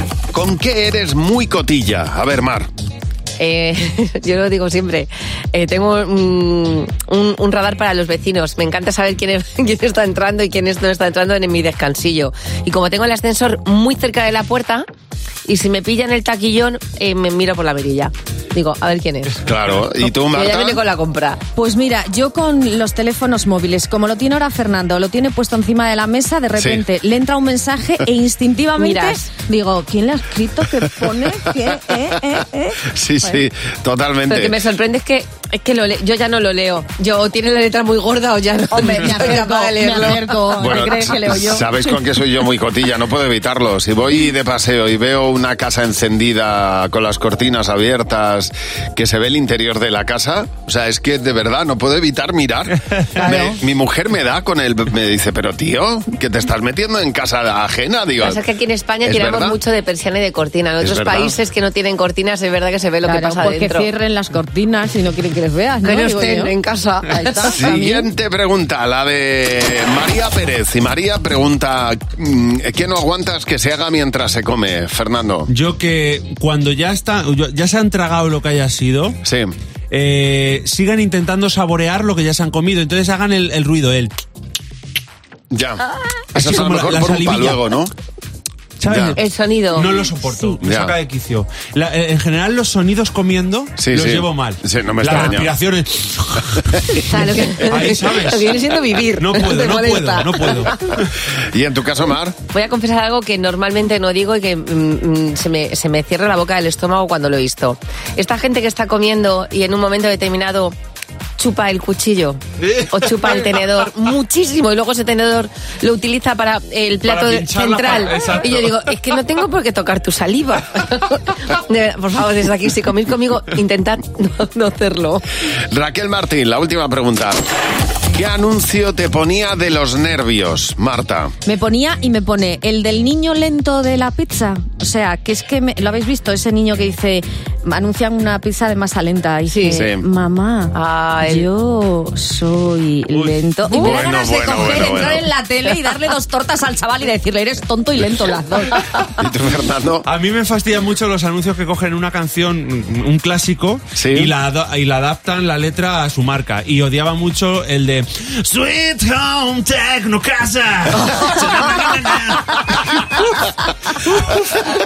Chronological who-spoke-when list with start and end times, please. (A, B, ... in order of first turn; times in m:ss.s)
0:00.3-0:02.7 A
0:03.4-0:14.9 B
0:15.5-0:19.4 B
0:19.4-0:20.8 A
0:20.0-0:21.4 B
0:21.6-0:33.4 C
0:26.6-0:26.8 A
0:28.8-0:29.3 B
0:32.9-0:34.5 A
0:34.3-0:41.2 B
0:38.7-0:42.0 C
0:40.6-0:58.4 A
0:58.2-1:03.9 B
0:59.0-0:59.6 A
1:00.8-1:01.4 A
1:03.0-1:06.5 C
1:05.8-1:07.7 B
1:07.1-1:08.1 C
1:07.5-1:15.5 A
1:15.5-1:19.2 D
1:19.2-1:19.5 A
1:19.9-1:24.1 D
1:25.5-1:27.9 A
1:26.4-1:27.6 D
1:28.8-1:38.5 D
1:28.9-1:29.2 A
1:29.2-1:30.5 B
1:30.6-1:30.9 A
1:33.8-1:35.5 A
1:37.0-1:40.8 B
1:39.2-1:40.7 D
1:41.5-1:42.4 A
1:42.5-1:50.8 B
1:51.4-2:05.2 B
1:52.6-1:52.9 D
1:57.0-1:58.8 D
2:05.7-2:07.4 A
2:08.1-2:11.3 A
2:11.4-2:20.8 C
2:19.5-2:19.8 B
2:19.7-2:20.1 A
2:20.7-2:21.4 B
2:21.3-2:29.1 C
2:23.1-2:23.4 D
2:23.7-2:25.3 A
2:24.6-2:24.8 D
2:29.2-2:30.1 A
2:30.1-2:43.4 D
2:34.0-2:34.3 A